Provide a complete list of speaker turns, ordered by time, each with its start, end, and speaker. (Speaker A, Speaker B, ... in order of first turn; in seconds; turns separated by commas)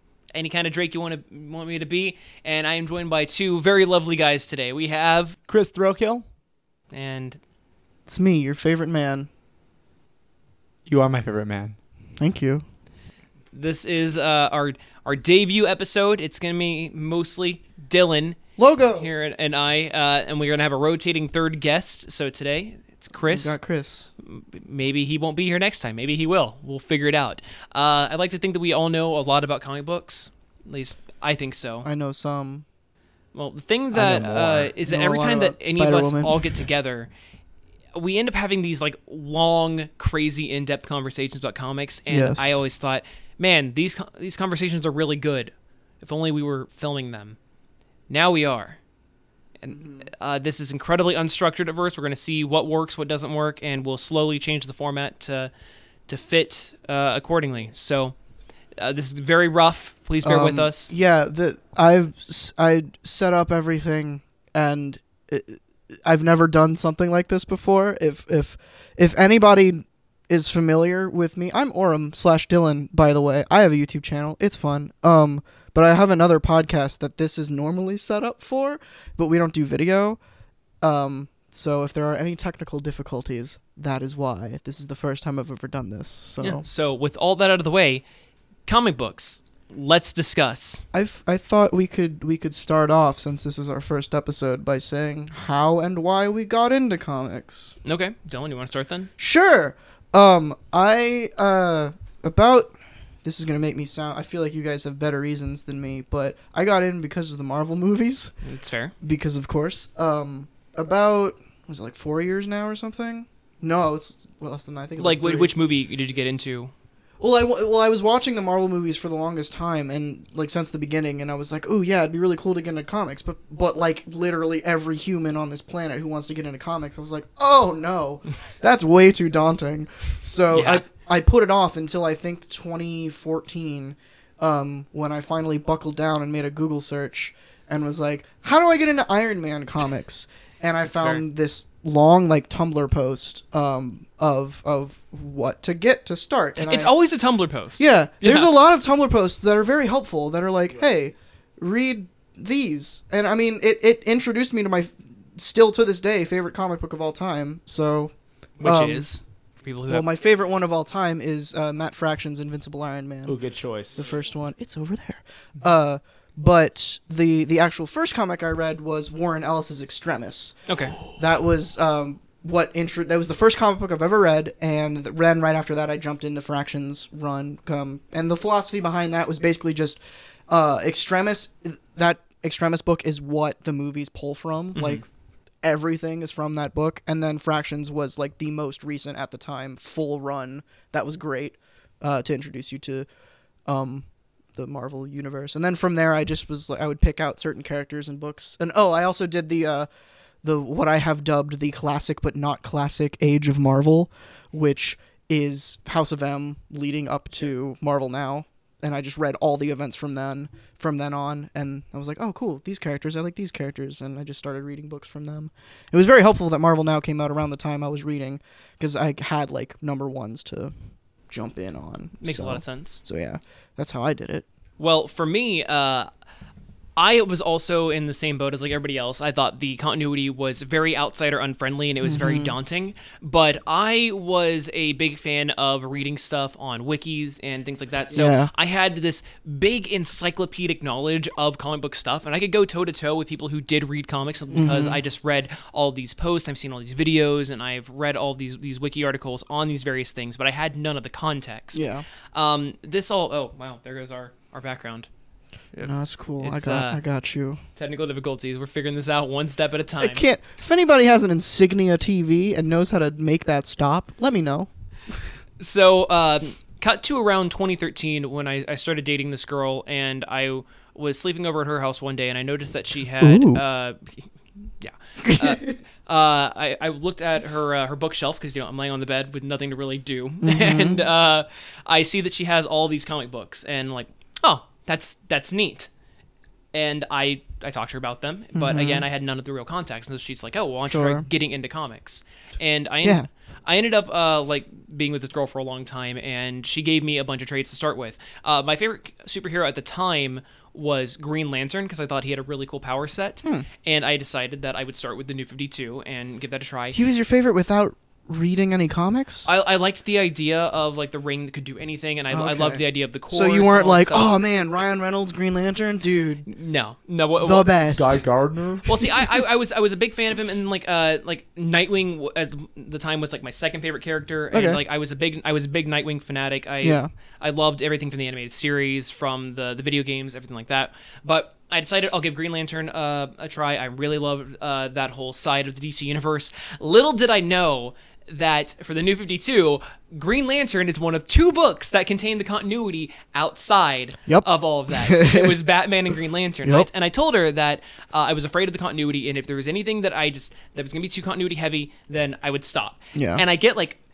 Speaker A: 0.3-5.3, Speaker B: 5.5-6.2, Speaker A: 6.9-7.4, Speaker C: 8.1-9.3, Speaker B: 10.9-11.8, Speaker C: 12.2-12.6, Speaker A: 13.5-18.4, Speaker C: 18.6-19.1, Speaker A: 18.9-23.6, Speaker C: 23.3-24.1, Speaker A: 24.2-31.9, Speaker C: 31.8-32.6, Speaker A: 33.3-37.1, Speaker B: 33.9-34.7, Speaker C: 34.8-36.4, Speaker A: 37.9-47.4, Speaker C: 42.1-42.6, Speaker A: 48.1-48.8, Speaker A: 49.6-55.5, Speaker C: 49.7-50.0, Speaker A: 56.1-58.1, Speaker A: 58.8-60.9, Speaker C: 60.2-80.2, Speaker C: 80.8-86.6, Speaker A: 86.4-88.0, Speaker A: 88.7-90.8, Speaker C: 90.9-97.7, Speaker A: 97.8-99.1, Speaker C: 99.2-108.3, Speaker A: 108.4-108.9, Speaker C: 109.0-115.5, Speaker A: 115.0-116.7, Speaker C: 117.2-146.9, Speaker A: 130.5-130.8, Speaker A: 140.9-141.2, Speaker A: 146.6-148.6, Speaker C: 147.8-159.0, Speaker B: 150.8-151.2, Speaker A: 158.6-160.1, Speaker C: 159.9-163.4, Speaker B: 163.2-164.0, Speaker C: 163.9-170.6, Speaker A: 170.7-171.0, Speaker C: 171.1-185.0, Speaker C: 185.6-193.1, Speaker C: 193.7-199.9, Speaker C: 200.4-220.7, Speaker C: 221.3-224.4, Speaker A: 222.2-223.0, Speaker A: 224.8-226.1, Speaker A: 227.0-255.1, Speaker C: 232.0-232.5, Speaker C: 238.1-238.5, Speaker C: 244.5-245.0, Speaker C: 251.7-252.0, Speaker C: 255.8-257.6, Speaker A: 256.4-257.0, Speaker A: 257.8-260.2, Speaker C: 260.0-265.1, Speaker A: 265.6-274.3, Speaker C: 273.2-273.6, Speaker A: 274.8-285.9, Speaker C: 275.2-275.7, Speaker C: 280.4-281.0, Speaker A: 286.7-307.0, Speaker C: 288.5-289.1, Speaker C: 290.9-291.2, Speaker C: 306.9-309.5, Speaker A: 309.4-314.3, Speaker C: 312.3-316.5, Speaker A: 316.5-317.7, Speaker C: 317.4-318.2, Speaker B: 317.9-318.9, Speaker A: 318.8-354.0, Speaker C: 324.5-324.8, Speaker C: 326.8-327.1, Speaker C: 344.3-345.6, Speaker C: 353.1-353.4